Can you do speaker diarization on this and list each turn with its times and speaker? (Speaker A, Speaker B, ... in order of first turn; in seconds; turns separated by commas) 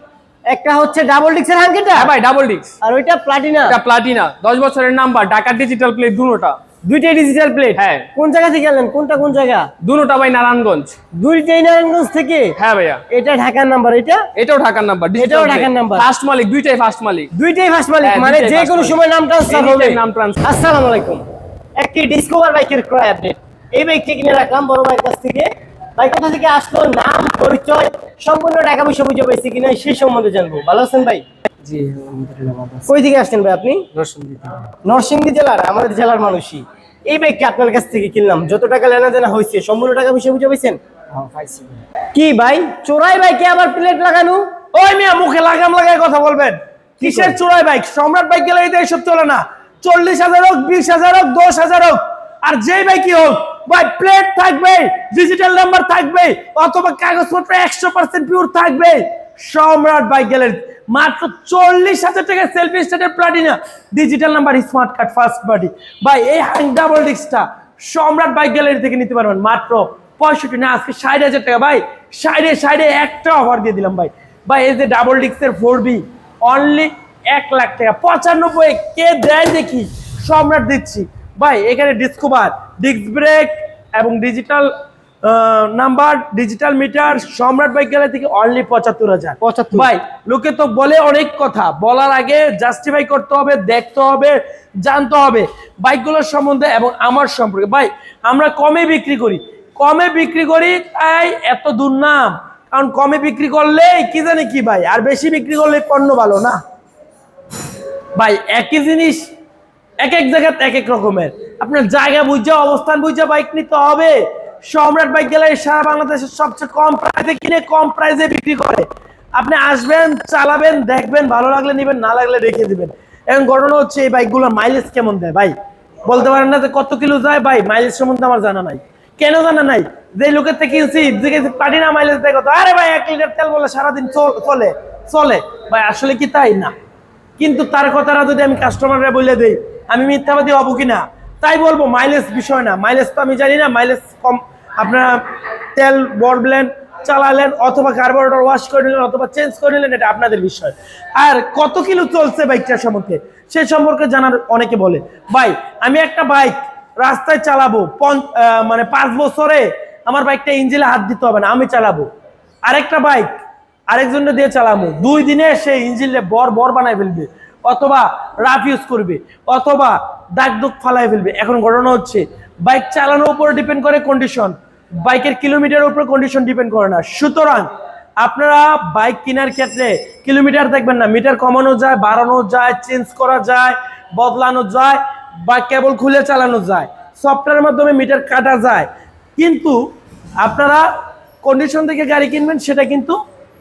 Speaker A: 0.5-2.1, Speaker B: 1.9-2.7, Speaker A: 2.8-3.8, Speaker B: 3.7-6.6, Speaker A: 6.8-9.7, Speaker B: 7.8-8.1, Speaker B: 9.8-10.9, Speaker A: 11.2-12.5, Speaker B: 12.6-13.0, Speaker A: 13.1-14.2, Speaker B: 14.3-17.3, Speaker A: 15.2-16.1, Speaker A: 17.3-21.2, Speaker B: 18.0-18.9, Speaker B: 19.5-20.4, Speaker A: 21.8-31.2, Speaker B: 31.6-32.9, Speaker A: 32.9-33.8, Speaker B: 33.9-34.7, Speaker A: 34.8-40.8, Speaker B: 41.1-41.8, Speaker A: 42.1-44.5, Speaker C: 44.7-84.7, Speaker A: 47.0-47.4, Speaker C: 85.2-106.6, Speaker A: 89.4-89.9, Speaker C: 108.2-109.2, Speaker C: 110.0-114.2, Speaker C: 114.7-118.8, Speaker C: 119.4-125.5, Speaker C: 126.0-136.7, Speaker C: 137.4-145.2, Speaker C: 145.8-162.1, Speaker C: 162.7-163.3, Speaker C: 163.9-177.7, Speaker C: 178.2-189.8, Speaker C: 190.4-190.8, Speaker C: 191.4-193.2